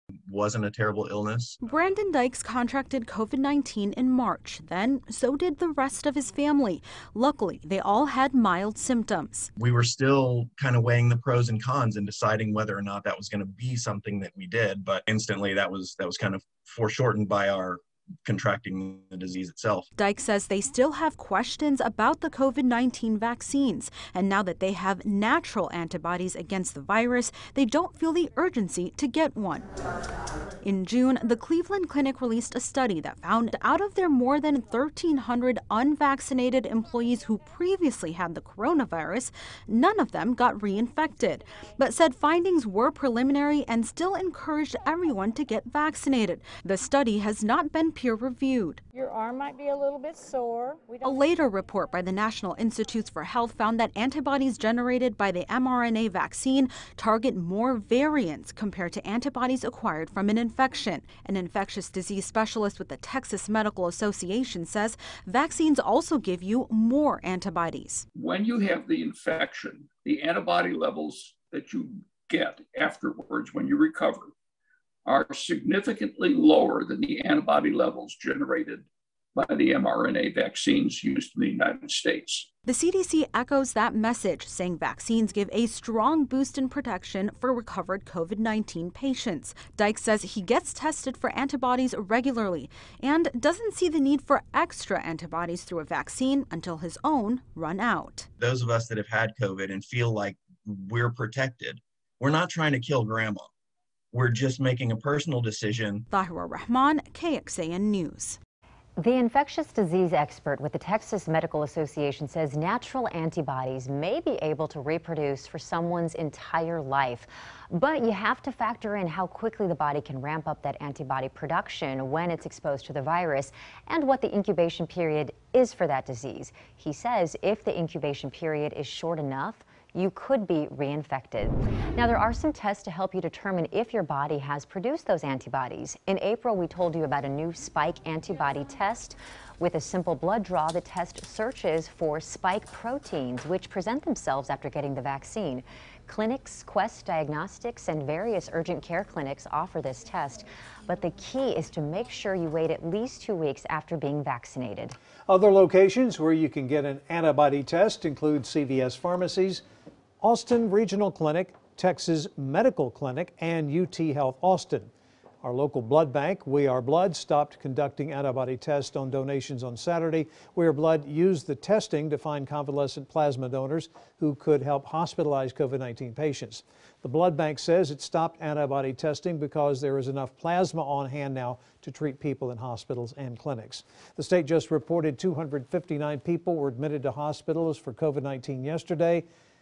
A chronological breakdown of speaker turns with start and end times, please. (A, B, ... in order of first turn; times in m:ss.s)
0:00.2-0:01.6 A
0:01.6-0:09.5 B
0:09.6-0:19.9 A
0:20.0-0:29.7 B
0:30.6-0:48.8 B
0:48.9-0:51.2 C
0:51.0-1:08.0 B
1:08.1-1:14.3 D
1:15.0-1:22.5 D
1:22.6-1:38.3 B
1:38.4-1:43.5 A
1:44.1-1:46.0 A
1:46.1-1:48.4 B
1:49.0-2:34.9 E
2:35.3-2:39.6 F
2:40.2-2:44.9 F
2:45.4-3:09.2 F